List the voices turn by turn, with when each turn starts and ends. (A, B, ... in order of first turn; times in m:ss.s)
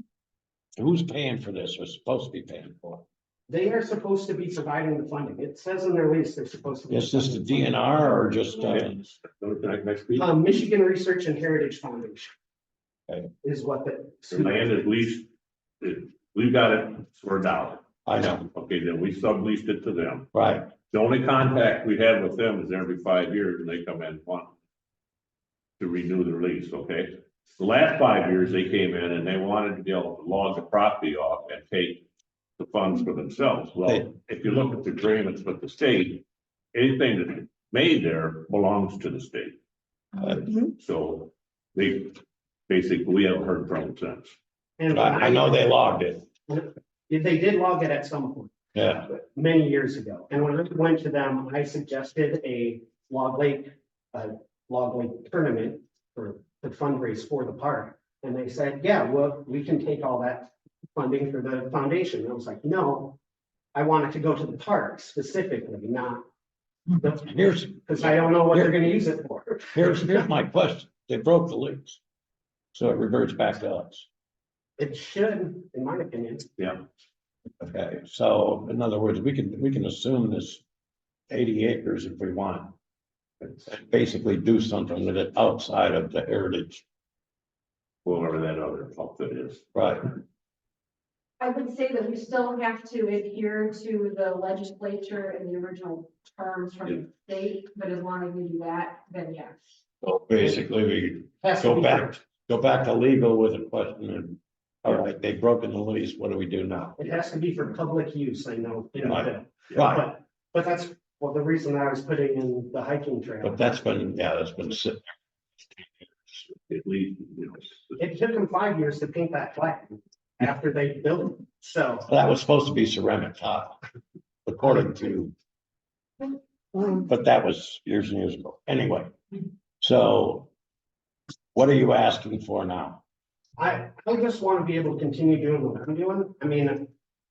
0:00.8-0:03.0 A
0:03.5-0:07.6 B
0:06.9-0:09.1 A
0:08.6-0:10.4 C
0:10.2-0:12.3 B
0:13.4-0:14.6 B
0:14.3-0:15.3 C
0:15.8-0:20.3 C
0:18.0-0:18.5 A
0:20.3-0:20.7 A
0:20.9-0:24.5 C
0:25.8-0:32.0 C
0:32.6-0:39.6 C
0:40.8-0:44.4 C
0:44.8-0:45.6 B
0:44.9-0:46.2 A
0:46.5-0:48.5 B
0:48.7-0:49.1 A
0:49.1-1:03.2 B
1:03.7-1:06.2 B
1:07.1-1:09.1 A
1:07.9-1:09.9 B
1:09.7-1:12.0 A
1:12.7-1:14.1 A
1:14.8-1:16.4 B
1:16.6-1:16.8 C
1:17.6-1:20.6 A
1:21.3-1:22.7 A
1:23.6-1:26.8 A
1:28.0-1:29.6 C
1:29.7-1:30.1 A
1:31.4-1:39.6 D
1:40.0-1:47.1 A
1:41.4-1:42.1 B
1:47.0-1:53.6 B
1:49.0-1:50.2 A
1:53.4-1:55.0 A
1:55.8-1:56.4 A
1:56.6-1:58.1 C
1:58.0-2:02.0 B
2:02.1-2:03.8 A
2:04.4-2:05.3 A
2:06.9-2:09.1 A
2:09.8-2:10.5 A
2:11.5-2:13.0 A
2:13.6-2:16.9 B